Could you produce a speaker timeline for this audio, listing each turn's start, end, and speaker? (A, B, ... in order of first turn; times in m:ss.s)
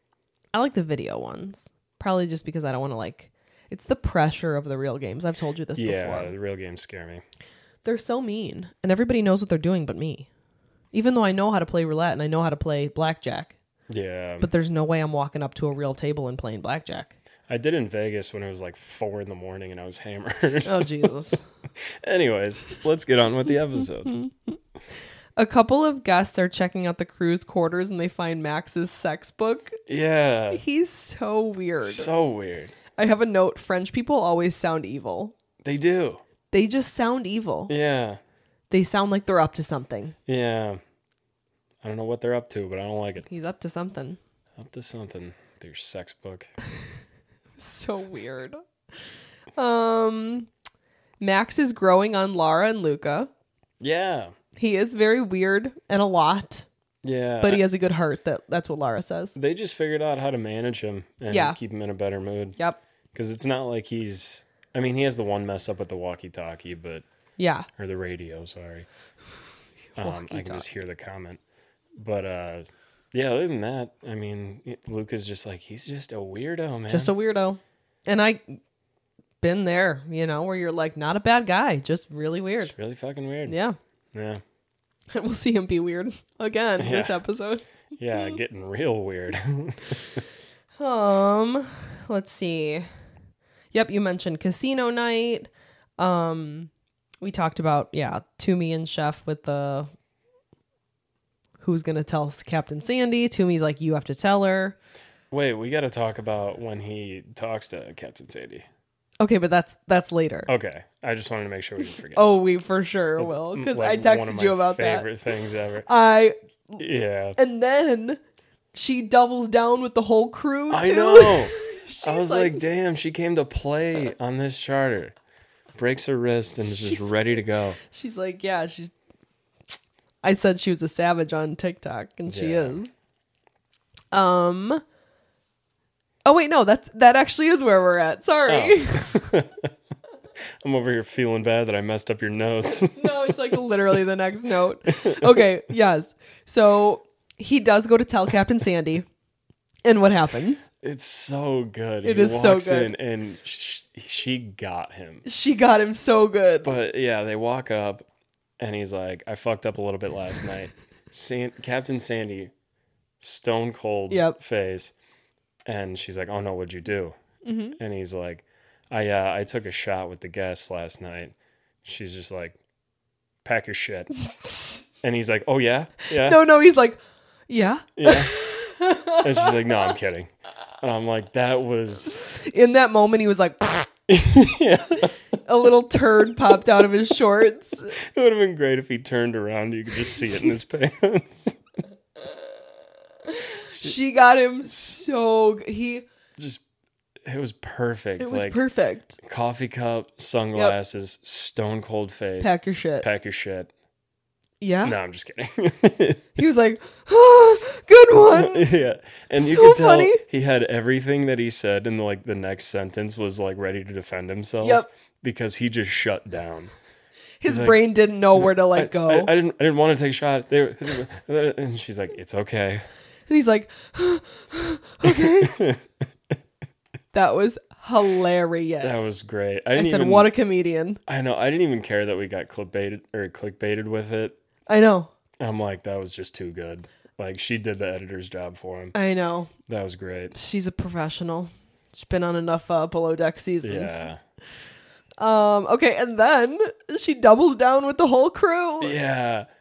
0:00.5-0:06.3 A
0:05.8-0:07.2 B
0:07.8-0:10.3 A
0:10.9-0:13.5 A
0:13.9-0:14.5 B
0:14.4-0:17.1 A
0:17.5-0:21.1 B
0:20.6-0:21.4 A
0:21.8-0:24.2 B
0:25.4-0:29.8 A
0:29.9-0:30.6 B
0:30.5-0:32.1 A
0:31.8-0:32.8 B
0:33.0-0:35.3 A
0:35.6-0:36.2 B
0:36.5-0:37.7 A
0:37.7-0:38.2 B
0:38.7-0:40.2 A
0:40.3-0:40.8 B
0:41.8-0:43.2 B
0:43.2-0:44.2 A
0:44.6-0:46.5 B
0:47.6-0:48.6 A
0:49.6-0:50.5 A
0:51.2-0:53.3 A
0:53.8-0:54.3 B
0:54.6-0:56.7 A
0:57.0-0:57.6 B
0:57.4-0:59.4 A
0:59.4-1:02.6 B
1:01.3-1:01.6 A
1:03.1-1:07.0 B
1:07.4-1:07.7 A
1:07.8-1:08.9 B
1:09.9-1:10.6 A
1:10.0-1:11.4 B
1:12.0-1:17.1 B
1:16.9-1:18.6 A
1:19.4-1:22.7 A
1:22.6-1:23.6 B
1:23.4-1:23.8 A
1:24.1-1:24.4 B
1:25.1-1:27.6 A
1:26.8-1:27.2 B
1:28.0-1:30.2 B
1:30.8-1:32.9 A
1:33.7-1:36.7 A
1:37.2-1:39.9 A
1:41.6-1:44.8 A
1:45.3-1:48.6 B
1:49.2-1:50.5 A
1:50.5-1:52.3 B
1:52.1-1:55.1 A
1:53.2-1:55.9 B
1:55.8-1:56.8 A
1:56.8-1:57.4 B
1:57.4-1:58.2 A
1:58.7-2:02.6 A
2:00.7-2:05.1 B
2:05.7-2:07.8 B
2:06.6-2:07.1 A
2:07.8-2:08.9 A
2:10.2-2:12.9 A
2:12.3-2:12.8 B
2:14.1-2:14.8 A
2:16.2-2:19.3 A
2:18.5-2:19.7 B
2:20.6-2:23.6 B
2:22.9-2:29.1 A
2:24.9-2:25.4 B
2:29.8-2:30.7 A
2:30.8-2:35.2 B
2:32.0-2:32.9 A
2:35.2-2:36.7 A
2:36.6-2:38.0 B
2:38.6-2:42.5 B
2:43.2-2:44.9 B
2:44.1-2:44.4 A
2:45.6-2:47.1 B
2:47.4-2:47.8 A
2:47.8-2:52.6 B
2:53.4-2:54.1 B
2:54.4-2:54.8 A
2:55.0-2:56.4 B
2:56.0-2:59.9 A
2:58.0-2:58.4 B
2:59.2-3:02.2 B
3:02.2-3:03.9 A
3:04.1-3:05.1 B
3:05.4-3:08.0 A
3:07.9-3:11.6 B
3:13.2-3:16.0 A
3:16.4-3:16.6 B
3:17.2-3:18.6 B
3:18.2-3:19.2 A
3:19.2-3:23.7 B
3:22.4-3:23.1 A
3:24.6-3:25.0 A
3:24.8-3:26.4 B
3:26.4-3:28.7 A
3:28.3-3:36.7 B
3:29.4-3:30.2 A
3:34.6-3:34.9 A
3:37.4-3:39.3 A
3:37.4-3:42.8 B
3:43.3-3:45.6 A
3:45.0-3:45.8 B
3:47.1-3:49.1 A
3:48.8-3:50.3 B
3:49.8-3:51.0 A
3:51.1-3:54.4 B
3:54.7-3:55.1 A
3:55.4-3:58.9 B
3:58.9-3:59.5 A
3:59.7-4:00.4 B
4:00.3-4:04.0 A
4:03.6-4:04.2 B
4:05.2-4:09.0 A
4:08.8-4:09.5 B